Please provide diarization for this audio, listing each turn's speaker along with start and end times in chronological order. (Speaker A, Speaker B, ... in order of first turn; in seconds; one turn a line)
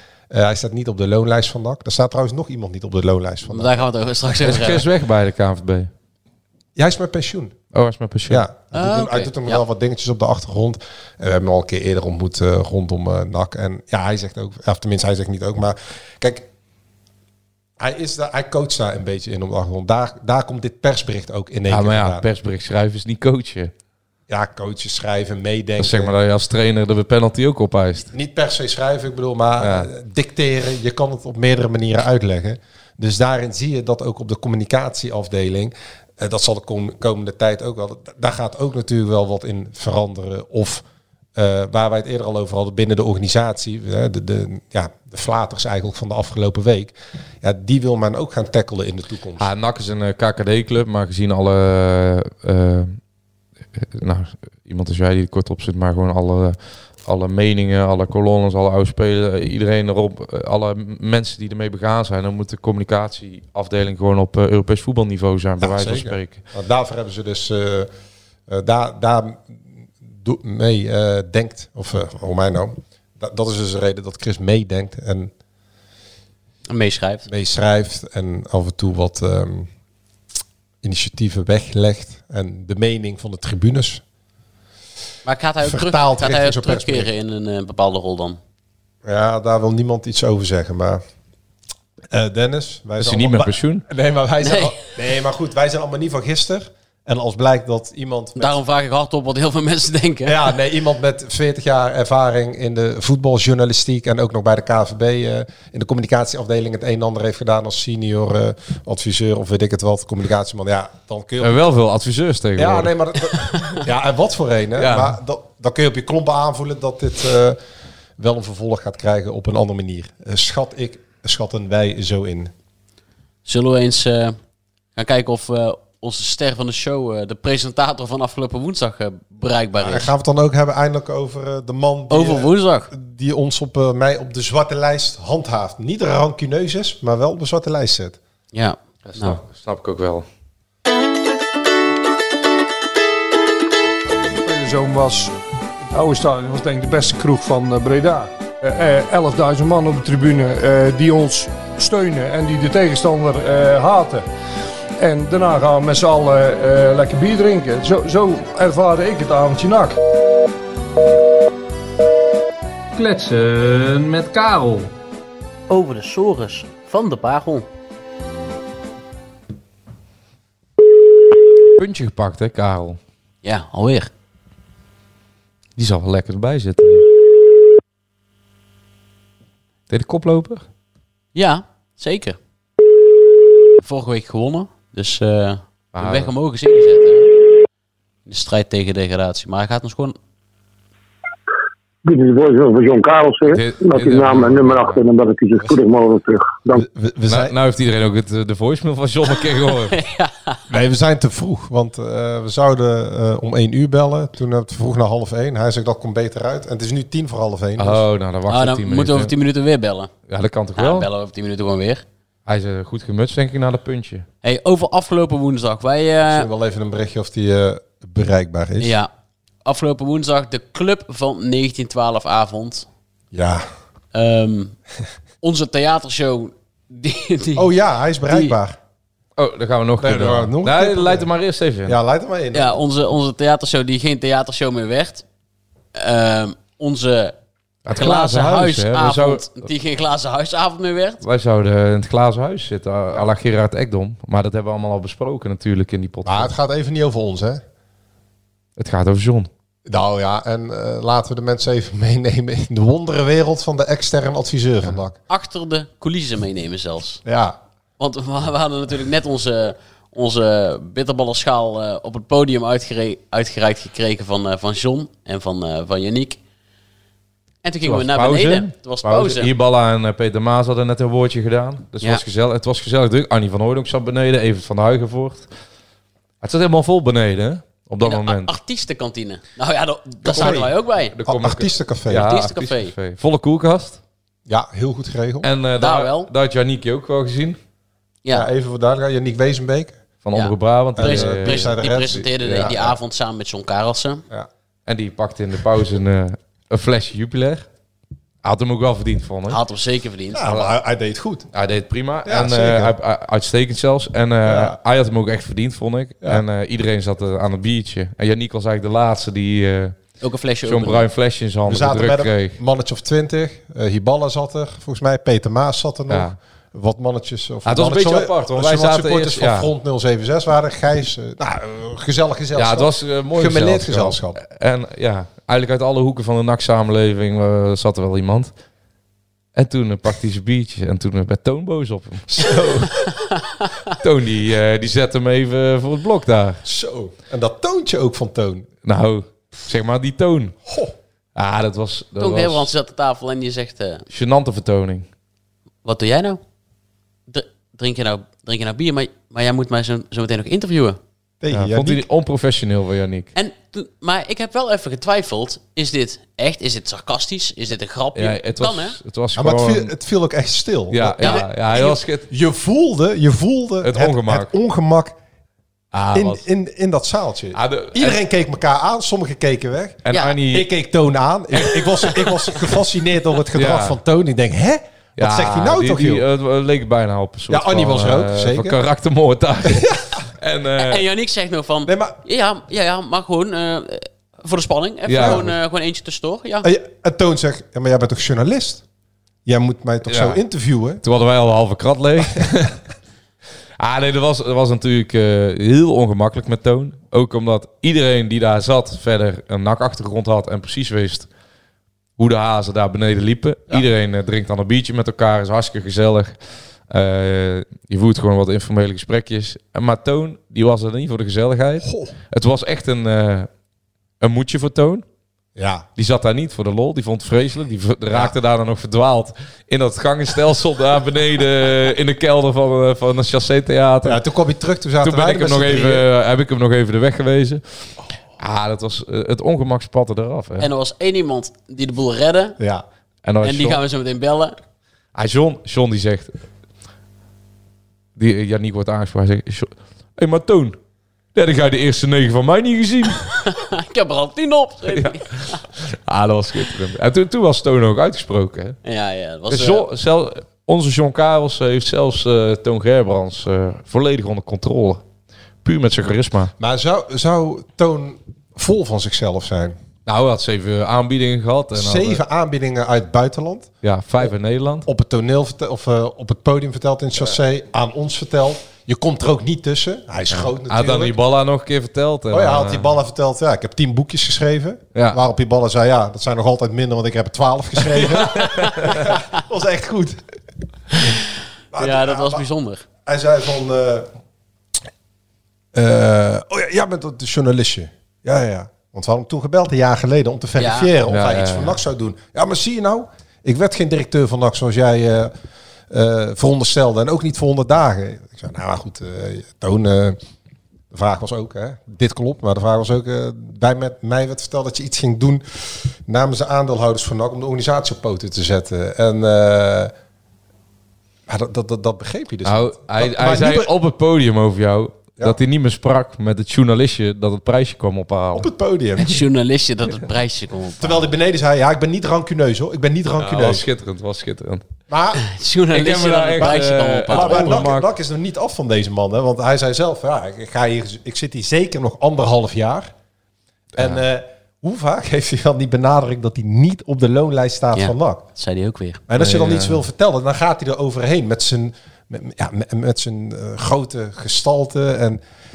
Speaker A: 0.3-3.7
Speaker B: 3.5-4.8
Speaker C: 4.4-5.9
Speaker A: 6.8-7.5
Speaker C: 7.7-8.5
Speaker A: 8.3-16.5
Speaker B: 8.7-9.6
Speaker A: 17.8-22.2
Speaker C: 21.7-23.7
Speaker A: 24.3-26.1
Speaker C: 25.8-28.1
Speaker A: 28.1-40.8
Speaker C: 29.6-29.9
Speaker A: 41.4-49.5
Speaker C: 49.4-53.0
Speaker C: 53.8-66.4
Speaker A: 65.6-67.9
Speaker A: 68.5-69.6
Speaker A: 70.1-75.3
Speaker B: 76.7-77.3
Speaker A: 77.3-79.7
Speaker A: 80.8-84.0
Speaker B: 85.2-88.4
Speaker A: 85.6-87.1
Speaker A: 89.0-91.0
Speaker A: 92.1-98.6
Speaker C: 93.0-93.8
Speaker B: 94.4-94.8
Speaker B: 98.4-100.5
Speaker A: 100.2-111.6
Speaker C: 111.4-112.9
Speaker A: 112.6-117.6
Speaker C: 114.8-115.2
Speaker A: 118.2-122.5
Speaker B: 123.5-124.4
Speaker B: 125.0-130.1
Speaker A: 129.8-138.2
Speaker B: 132.1-132.9
Speaker B: 138.5-139.4
Speaker C: 139.1-140.3
Speaker D: 144.3-145.3
Speaker D: 145.9-154.3
Speaker D: 155.0-160.0
Speaker E: 163.0-164.9
Speaker B: 165.7-167.7
Speaker C: 171.8-173.0
Speaker B: 173.4-174.1
Speaker C: 175.8-177.1
Speaker C: 179.9-180.6
Speaker B: 181.3-182.4
Speaker B: 183.8-187.3
Speaker C: 185.9-186.3
Speaker B: 188.3-190.2
Speaker F: 192.1-196.8
Speaker C: 193.5-195.0
Speaker A: 196.8-197.5
Speaker C: 197.3-200.0
Speaker B: 199.7-200.6
Speaker A: 200.7-208.0
Speaker C: 207.8-209.3
Speaker B: 208.5-210.1
Speaker C: 210.3-211.1
Speaker B: 210.8-212.1
Speaker C: 212.5-214.3
Speaker B: 214.4-216.5
Speaker A: 216.3-218.9
Speaker B: 218.8-219.1
Speaker B: 219.7-222.9
Speaker A: 223.3-223.7
Speaker B: 224.1-224.8
Speaker B: 225.4-227.7
Speaker A: 227.6-228.8
Speaker B: 228.3-228.6
Speaker C: 229.4-232.0
Speaker A: 230.0-231.3
Speaker A: 231.9-232.8
Speaker B: 232.5-235.2
Speaker B: 235.9-237.3
Speaker C: 237.9-239.7
Speaker B: 237.9-241.2
Speaker C: 241.2-246.5
Speaker A: 246.2-247.6
Speaker C: 248.8-249.5
Speaker A: 249.9-255.2
Speaker B: 255.3-257.2
Speaker A: 257.2-257.6
Speaker B: 258.0-266.4
Speaker B: 267.6-269.5
Speaker C: 267.8-275.5
Speaker C: 276.4-278.5
Speaker B: 278.0-281.1
Speaker A: 280.2-280.7
Speaker C: 280.3-284.0
Speaker A: 281.3-282.3
Speaker B: 282.1-282.9
Speaker A: 284.5-285.5
Speaker C: 285.4-287.6
Speaker B: 285.8-286.3
Speaker A: 288.3-290.0
Speaker C: 290.2-291.8
Speaker B: 290.3-294.2
Speaker A: 291.0-293.0
Speaker C: 294.9-297.7
Speaker C: 298.4-299.6
Speaker B: 299.5-300.4
Speaker A: 300.3-301.5
Speaker C: 301.5-310.0
Speaker A: 302.2-302.9
Speaker A: 304.5-304.8
Speaker B: 310.2-311.1
Speaker C: 310.6-312.6
Speaker A: 311.7-324.4
Speaker C: 316.1-316.4
Speaker C: 317.7-319.7
Speaker C: 322.5-328.5
Speaker C: 329.6-332.9
Speaker A: 332.4-332.9
Speaker B: 333.3-333.7
Speaker C: 334.0-336.6
Speaker A: 336.6-338.7
Speaker C: 338.9-340.6
Speaker A: 340.7-340.9
Speaker C: 341.4-342.7
Speaker B: 342.2-344.1
Speaker C: 344.1-345.1
Speaker B: 345.9-346.4
Speaker B: 347.3-351.0
Speaker A: 351.4-352.1
Speaker C: 351.5-353.3
Speaker B: 353.4-359.0
Speaker C: 358.1-359.9
Speaker A: 359.4-365.2
Speaker C: 360.9-362.3
Speaker B: 361.2-361.9
Speaker C: 363.8-364.5
Speaker C: 365.9-366.4
Speaker A: 366.1-376.2
Speaker C: 367.5-368.2
Speaker C: 370.1-370.7
Speaker B: 370.1-370.4
Speaker C: 371.6-372.1
Speaker C: 373.5-374.0
Speaker C: 375.2-381.0
Speaker A: 377.5-378.8
Speaker A: 379.7-380.0
Speaker B: 380.8-386.7
Speaker A: 381.9-382.2
Speaker C: 385.1-385.4
Speaker A: 385.2-385.5
Speaker A: 386.6-388.8
Speaker A: 389.5-391.0
Speaker C: 390.1-390.4
Speaker C: 391.0-392.8
Speaker C: 393.8-401.3
Speaker C: 402.2-406.4
Speaker C: 406.9-413.5
Speaker A: 411.8-412.1
Speaker C: 414.2-415.1
Speaker A: 415.6-415.9
Speaker C: 416.0-424.2
Speaker A: 424.0-426.1
Speaker C: 425.0-427.6
Speaker C: 428.4-430.7
Speaker B: 430.6-432.6
Speaker A: 432.6-432.9
Speaker C: 433.2-433.8
Speaker B: 433.4-434.6
Speaker C: 435.1-436.3
Speaker C: 438.2-440.8
Speaker C: 441.3-443.3
Speaker B: 443.5-445.6
Speaker C: 444.9-448.8
Speaker B: 448.8-449.9
Speaker C: 449.5-455.0
Speaker C: 455.6-456.5
Speaker A: 456.6-459.8
Speaker C: 460.1-462.2
Speaker A: 461.7-463.7
Speaker C: 463.8-464.9
Speaker A: 464.9-471.2
Speaker C: 470.3-472.9
Speaker A: 472.3-480.2
Speaker C: 474.9-475.2
Speaker C: 478.0-479.1
Speaker A: 481.7-482.4
Speaker B: 481.8-482.9
Speaker A: 483.1-484.1
Speaker A: 485.7-495.3
Speaker B: 490.6-490.9
Speaker C: 491.1-491.8
Speaker A: 495.9-500.2
Speaker A: 500.9-509.9
Speaker A: 511.3-513.7
Speaker C: 512.5-518.5
Speaker A: 518.3-519.2
Speaker B: 519.0-521.1
Speaker A: 520.8-523.7
Speaker C: 523.2-524.6
Speaker A: 524.9-525.2
Speaker B: 525.2-527.6
Speaker C: 525.7-527.9
Speaker A: 527.1-532.9
Speaker A: 533.8-538.2
Speaker B: 537.8-539.0
Speaker A: 539.1-545.2
Speaker C: 539.2-539.8